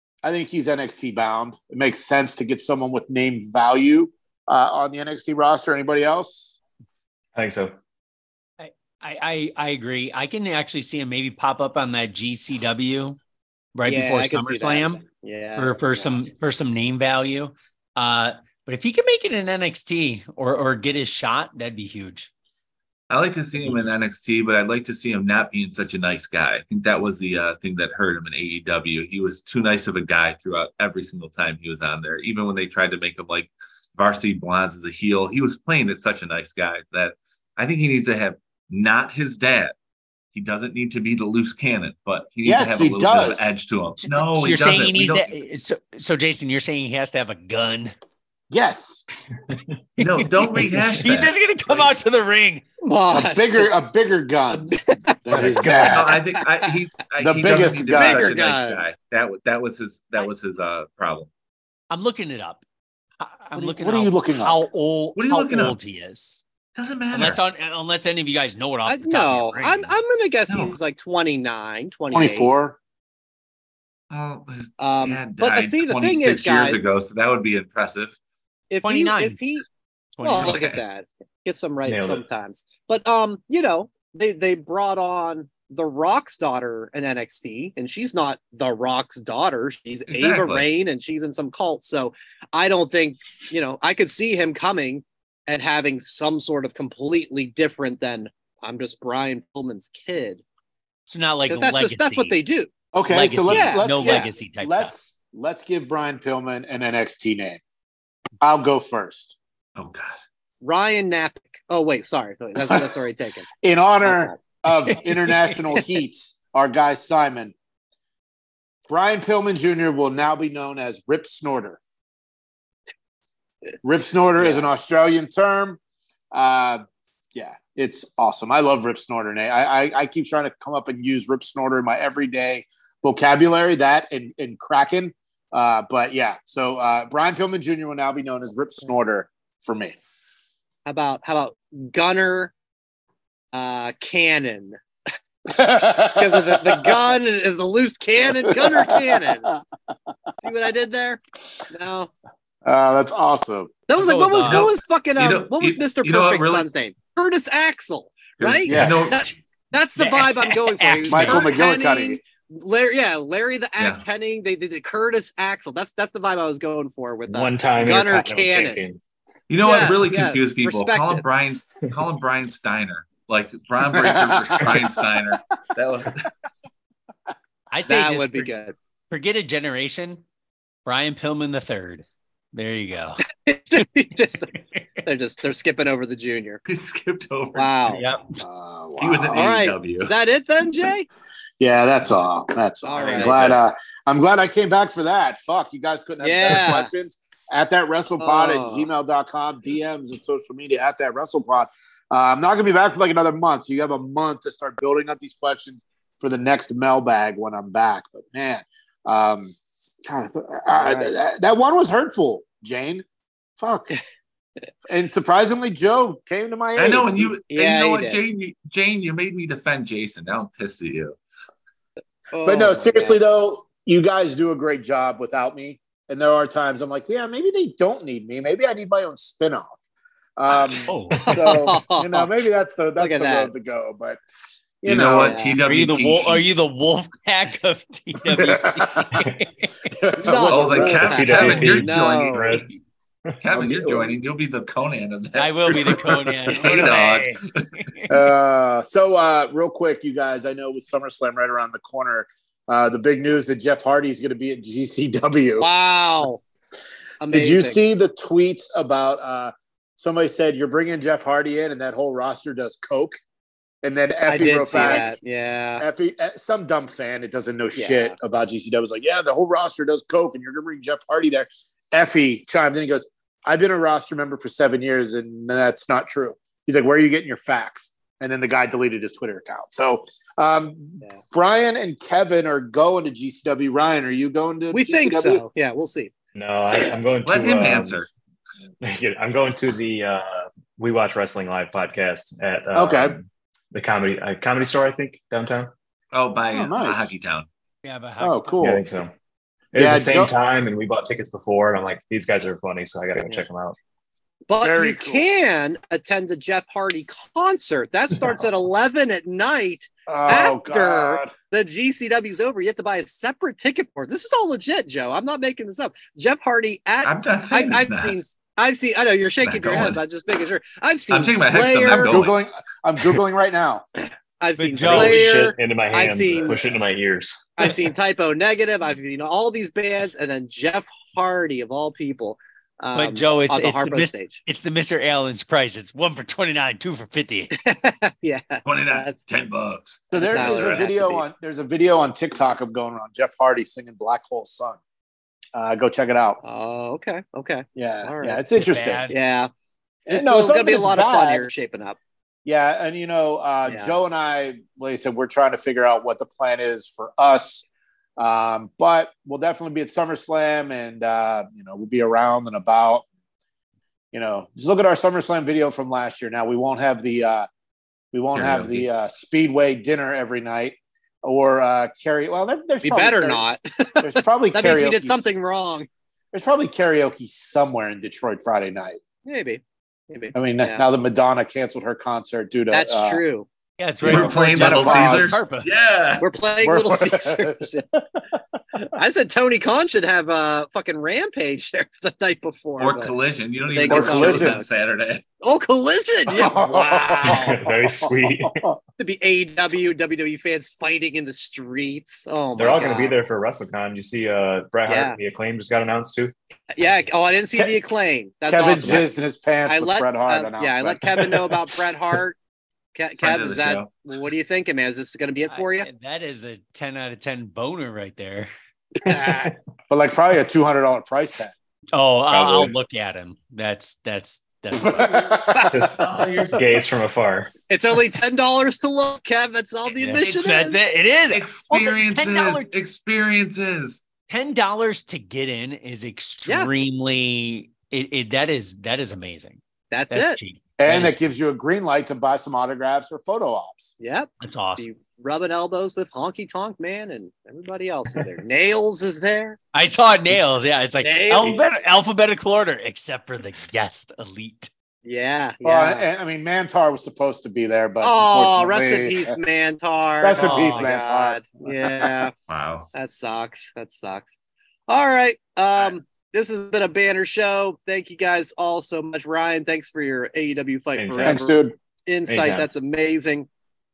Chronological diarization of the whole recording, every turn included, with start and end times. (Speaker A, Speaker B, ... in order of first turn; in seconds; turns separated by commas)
Speaker A: 0.2-6.5, Speaker B: 7.3-7.7, Speaker C: 8.6-13.2, Speaker C: 13.7-15.0, Speaker D: 13.9-16.2, Speaker C: 15.6-22.3, Speaker E: 23.1-39.7, Speaker E: 40.3-45.3, Speaker A: 42.4-43.5, Speaker C: 44.0-47.9, Speaker A: 48.5-49.0, Speaker C: 50.0-52.6, Speaker E: 50.0-51.9, Speaker D: 52.8-53.7, Speaker A: 53.1-54.7, Speaker D: 54.5-55.2, Speaker A: 55.2-56.2, Speaker C: 55.3-56.1, Speaker E: 55.9-61.3, Speaker A: 57.2-58.3, Speaker D: 57.9-58.8, Speaker C: 61.9-62.6, Speaker C: 63.2-66.4, Speaker A: 63.5-64.6, Speaker E: 65.2-65.8, Speaker E: 66.7-67.4, Speaker C: 67.1-69.9, Speaker D: 68.9-72.5, Speaker A: 72.1-72.8, Speaker E: 74.1-78.2, Speaker D: 74.8-76.8, Speaker D: 78.7-79.7, Speaker C: 78.8-79.4, Speaker C: 80.1-80.6, Speaker D: 80.2-100.4, Speaker E: 80.4-80.8, Speaker B: 81.8-82.2, Speaker E: 90.1-90.7, Speaker C: 101.1-102.3, Speaker D: 101.5-102.7, Speaker A: 102.9-107.6, Speaker C: 103.1-104.9, Speaker D: 103.5-104.3, Speaker A: 108.4-109.4, Speaker E: 109.8-110.2, Speaker D: 110.6-113.5, Speaker A: 113.6-117.5, Speaker D: 114.0-114.4, Speaker A: 118.9-121.8, Speaker A: 123.8-125.8, Speaker A: 126.3-126.8, Speaker A: 127.3-139.9, Speaker D: 140.8-142.5, Speaker D: 143.5-144.8, Speaker A: 145.5-147.0, Speaker D: 146.1-149.5, Speaker A: 148.4-149.6, Speaker D: 150.4-152.1, Speaker A: 152.6-153.7, Speaker D: 153.9-168.8, Speaker C: 154.0-154.7, Speaker E: 154.4-156.7, Speaker E: 158.4-159.2, Speaker A: 158.6-159.1, Speaker C: 160.0-161.5, Speaker A: 161.1-162.2, Speaker B: 167.3-169.0, Speaker E: 169.5-176.3, Speaker D: 169.6-171.2, Speaker A: 173.9-175.0, Speaker C: 177.7-178.5, Speaker D: 177.8-178.7, Speaker C: 179.1-180.2, Speaker C: 180.8-183.2, Speaker D: 183.3-184.5, Speaker D: 185.0-186.6, Speaker E: 186.7-188.0, Speaker D: 187.5-188.0, Speaker C: 187.9-188.4, Speaker A: 188.4-189.4, Speaker E: 189.0-190.1, Speaker D: 189.3-191.1, Speaker A: 191.6-213.0, Speaker D: 192.8-193.5, Speaker E: 193.0-193.6, Speaker D: 196.2-196.9, Speaker D: 198.2-198.9, Speaker D: 210.7-211.1, Speaker A: 213.6-213.9, Speaker A: 214.9-217.3, Speaker E: 216.8-221.2, Speaker D: 217.5-218.2, Speaker D: 222.3-223.2, Speaker A: 222.4-229.7, Speaker A: 230.4-234.2, Speaker C: 230.9-231.2, Speaker D: 231.2-232.3, Speaker D: 233.0-233.5, Speaker A: 234.8-235.4, Speaker E: 234.9-236.6, Speaker D: 235.2-235.6, Speaker C: 235.7-239.9, Speaker A: 238.3-239.3, Speaker B: 239.2-239.4, Speaker A: 239.9-241.3, Speaker D: 240.2-242.6, Speaker E: 240.5-242.7, Speaker B: 240.9-242.7, Speaker E: 243.4-247.7, Speaker A: 243.5-244.2, Speaker C: 245.4-248.1, Speaker A: 248.1-255.7, Speaker D: 255.6-256.4, Speaker D: 257.2-257.8, Speaker A: 257.3-263.2, Speaker A: 263.8-265.2, Speaker D: 264.3-265.8, Speaker A: 265.8-285.4, Speaker D: 267.7-268.1, Speaker D: 284.7-286.1, Speaker B: 286.3-288.0, Speaker E: 287.2-288.1, Speaker B: 288.8-295.7, Speaker A: 292.7-293.2, Speaker E: 296.1-297.5, Speaker A: 296.5-297.1, Speaker C: 297.8-298.8, Speaker A: 298.2-298.8, Speaker B: 298.6-299.1, Speaker B: 299.7-303.8, Speaker A: 299.8-300.3, Speaker D: 304.5-322.3, Speaker A: 304.6-305.3, Speaker A: 310.1-311.3, Speaker E: 317.0-318.2, Speaker E: 319.4-320.0, Speaker E: 321.1-322.4, Speaker A: 321.9-323.8, Speaker D: 324.4-326.6, Speaker C: 324.6-325.2, Speaker B: 324.8-327.7, Speaker D: 327.6-334.4, Speaker C: 332.9-337.5, Speaker D: 337.5-339.1, Speaker E: 338.6-341.0, Speaker A: 340.1-344.8, Speaker D: 340.1-341.2, Speaker A: 345.5-346.4, Speaker D: 346.4-348.4, Speaker A: 347.8-349.1, Speaker C: 348.6-349.1, Speaker D: 349.1-349.5, Speaker A: 350.1-351.5, Speaker D: 350.1-352.0, Speaker A: 352.4-357.6, Speaker D: 353.7-353.9, Speaker A: 358.2-363.0, Speaker A: 364.1-367.5, Speaker A: 368.1-373.4, Speaker E: 368.3-368.9, Speaker D: 372.8-375.9, Speaker A: 374.0-375.3, Speaker A: 376.3-379.0, Speaker D: 379.2-380.8, Speaker A: 380.3-383.2, Speaker D: 382.7-383.4, Speaker C: 383.8-385.9, Speaker A: 384.0-385.4, Speaker E: 384.0-386.3, Speaker D: 386.2-387.8, Speaker A: 386.6-388.6, Speaker D: 388.8-393.1, Speaker E: 392.8-395.2, Speaker D: 393.7-394.6, Speaker A: 393.8-394.6, Speaker D: 395.4-397.6, Speaker A: 396.3-398.8, Speaker B: 397.2-398.6, Speaker D: 399.0-403.1, Speaker B: 402.6-406.3, Speaker D: 404.9-405.2, Speaker D: 406.7-409.1, Speaker A: 408.5-411.6, Speaker D: 409.6-412.4, Speaker D: 412.9-415.9, Speaker E: 413.2-413.9, Speaker C: 415.5-418.5, Speaker D: 419.1-419.5, Speaker A: 419.9-421.5, Speaker C: 421.9-425.4, Speaker B: 422.3-422.7, Speaker A: 424.7-426.0, Speaker B: 425.7-427.5, Speaker E: 426.0-426.6, Speaker D: 427.7-430.8, Speaker C: 430.0-432.7, Speaker E: 430.2-430.6, Speaker E: 431.3-434.0, Speaker C: 434.3-441.2, Speaker D: 436.4-436.7, Speaker D: 439.9-440.4, Speaker A: 440.8-443.9, Speaker D: 444.0-449.6, Speaker C: 444.4-444.9, Speaker C: 449.7-454.7, Speaker D: 451.0-451.8, Speaker D: 455.0-456.0, Speaker A: 455.6-459.4, Speaker D: 458.0-462.3, Speaker A: 460.2-462.3, Speaker C: 460.4-461.0, Speaker E: 462.5-462.9, Speaker D: 462.9-464.4, Speaker D: 464.9-473.5, Speaker B: 471.0-471.4, Speaker A: 471.2-471.7, Speaker B: 472.3-472.6